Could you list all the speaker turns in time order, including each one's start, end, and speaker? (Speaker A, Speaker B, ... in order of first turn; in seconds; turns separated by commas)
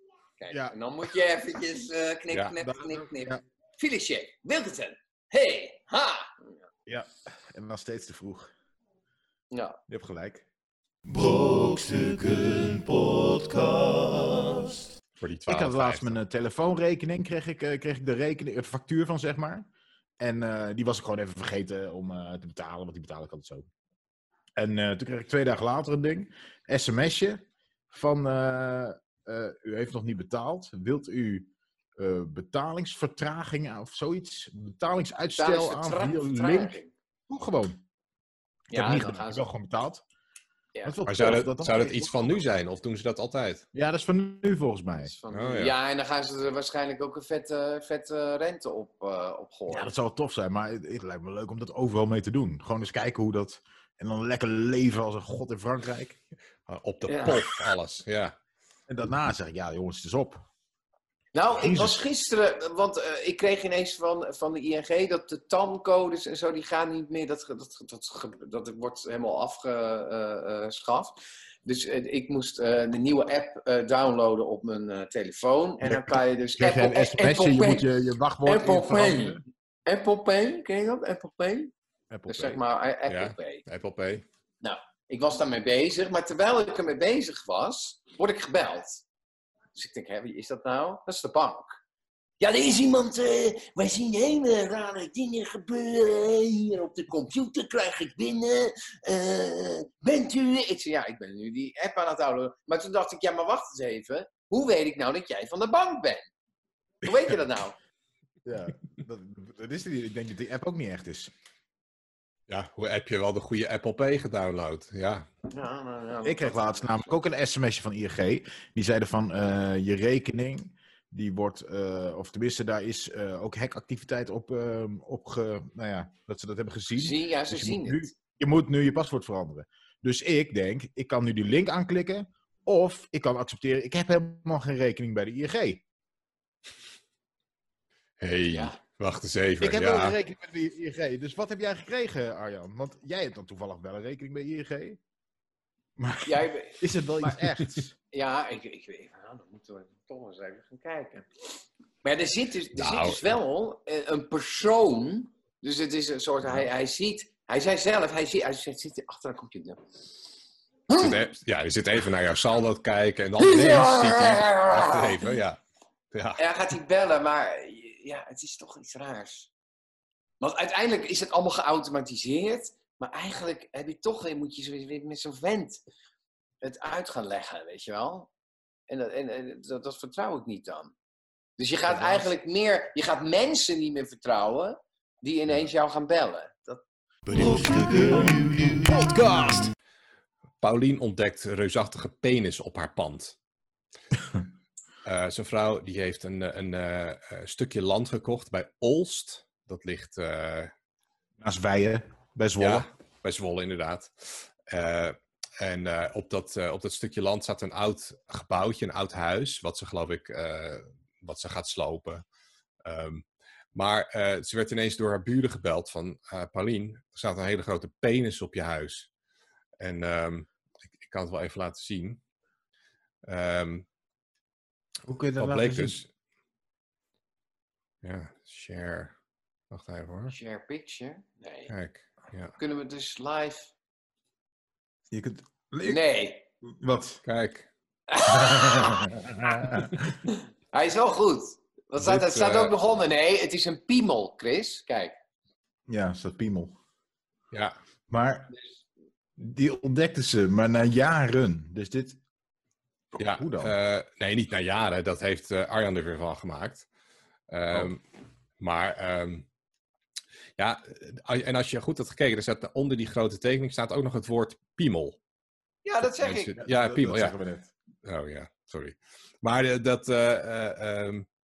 Speaker A: 0.4-6.4, Speaker B: 0.5-0.7, Speaker B: 2.6-3.4, Speaker B: 6.9-8.5, Speaker A: 9.5-9.8, Speaker B: 9.9-10.4, Speaker C: 11.0-14.9, Speaker D: 15.2-16.2, Speaker B: 15.5-19.7, Speaker B: 20.2-23.7, Speaker B: 24.6-37.8, Speaker A: 35.4-36.9, Speaker A: 38.7-39.5, Speaker B: 38.7-40.0, Speaker B: 40.8-42.3, Speaker D: 41.0-43.6, Speaker B: 43.7-45.1, Speaker A: 45.0-49.9, Speaker D: 45.3-45.7, Speaker B: 49.7-56.2, Speaker D: 56.7-58.3, Speaker A: 57.1-57.4, Speaker B: 58.9-60.5, Speaker A: 61.3-77.9, Speaker B: 61.5-62.0, Speaker B: 75.8-79.4, Speaker A: 78.4-81.7, Speaker B: 82.1-82.6, Speaker A: 82.3-83.6, Speaker D: 83.1-84.2, Speaker A: 84.6-89.0, Speaker A: 89.7-91.7, Speaker A: 92.4-106.3, Speaker A: 107.0-107.7, Speaker B: 108.4-111.3, Speaker D: 112.5-115.2, Speaker A: 115.5-117.2, Speaker B: 116.2-135.8, Speaker A: 126.9-128.1, Speaker D: 138.2-140.2, Speaker A: 138.5-138.8, Speaker B: 139.6-145.0, Speaker B: 146.0-147.9, Speaker A: 146.2-147.4, Speaker A: 148.1-151.3, Speaker A: 152.0-159.8, Speaker D: 152.7-153.3, Speaker A: 160.9-161.2, Speaker D: 160.9-165.6, Speaker A: 163.4-165.3, Speaker D: 166.1-166.4, Speaker A: 166.4-169.5, Speaker A: 170.4-175.8, Speaker A: 176.6-178.3, Speaker A: 178.9-180.9, Speaker A: 181.6-186.8, Speaker C: 187.3-189.7, Speaker D: 190.6-193.3, Speaker D: 195.0-200.7, Speaker B: 201.4-202.8, Speaker D: 202.6-212.2, Speaker D: 212.8-213.2, Speaker D: 213.7-219.1, Speaker D: 219.8-222.2, Speaker D: 223.2-223.8, Speaker B: 225.1-226.0, Speaker D: 225.4-226.1, Speaker D: 228.0-229.1, Speaker D: 229.7-230.3, Speaker A: 230.3-231.7, Speaker D: 231.7-232.5, Speaker A: 232.6-233.7, Speaker B: 235.1-236.0, Speaker A: 235.8-236.4, Speaker B: 236.6-237.2, Speaker D: 237.2-237.7, Speaker A: 238.1-239.1, Speaker B: 238.2-240.2, Speaker A: 240.2-245.1, Speaker D: 242.0-242.7, Speaker B: 245.9-246.8, Speaker B: 248.1-248.5, Speaker B: 249.4-252.2, Speaker B: 253.1-253.7, Speaker D: 253.2-256.9, Speaker D: 257.5-258.0, Speaker D: 258.6-259.4, Speaker D: 260.6-265.2, Speaker A: 265.8-266.6, Speaker D: 266.2-267.3, Speaker B: 266.6-267.7, Speaker D: 268.0-271.2